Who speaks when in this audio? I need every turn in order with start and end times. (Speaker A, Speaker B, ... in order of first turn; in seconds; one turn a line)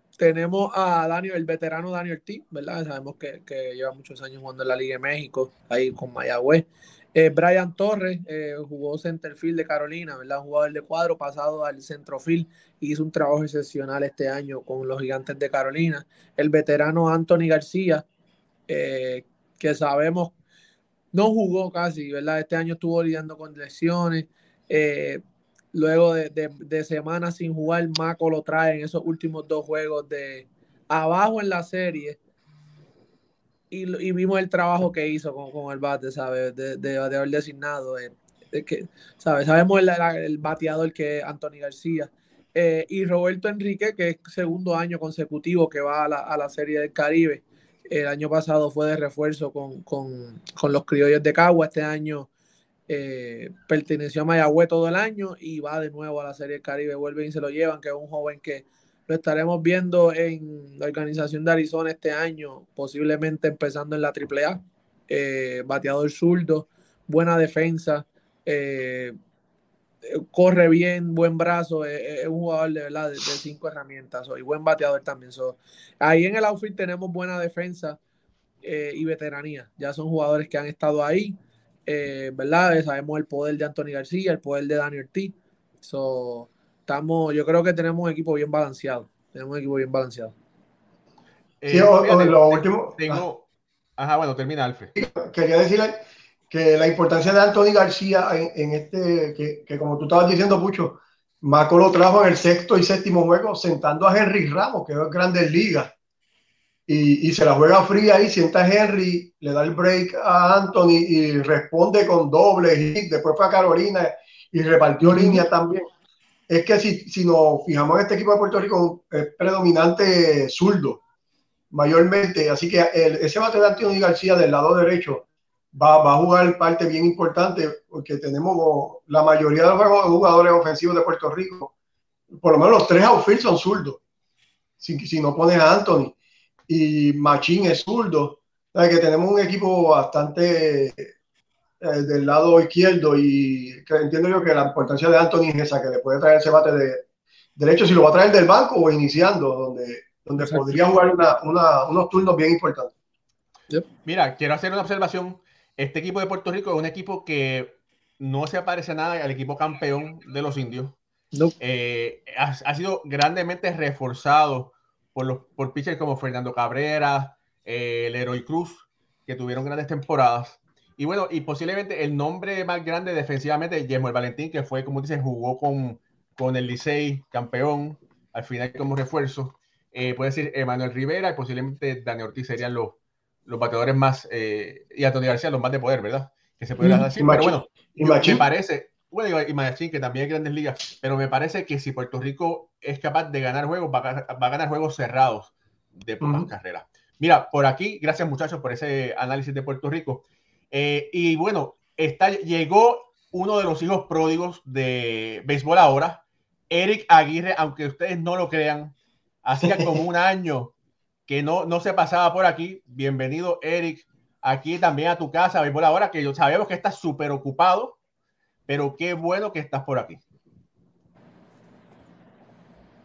Speaker A: 0.2-18.0
Speaker A: 18.7-20.3
Speaker A: 21.1-25.2
Speaker A: 25.7-32.2
Speaker A: 33.7-52.3
Speaker A: 52.9-69.2
Speaker A: 70.0-78.0
Speaker A: 78.6-90.3
Speaker B: 91.6-93.5
Speaker C: 91.7-93.2
Speaker B: 94.0-94.9
Speaker C: 95.0-105.9
Speaker C: 106.9-115.9
Speaker A: 115.0-115.4
Speaker C: 116.5-121.0
Speaker C: 121.7-131.7
Speaker C: 132.3-134.0
Speaker C: 134.8-136.1
Speaker C: 136.7-141.1
Speaker C: 141.8-147.0
Speaker C: 147.6-152.9
Speaker A: 150.4-150.7
Speaker B: 154.0-161.0
Speaker B: 161.6-210.7
Speaker C: 186.8-188.4
Speaker C: 196.2-196.5
Speaker B: 211.3-218.0
Speaker B: 218.7-220.2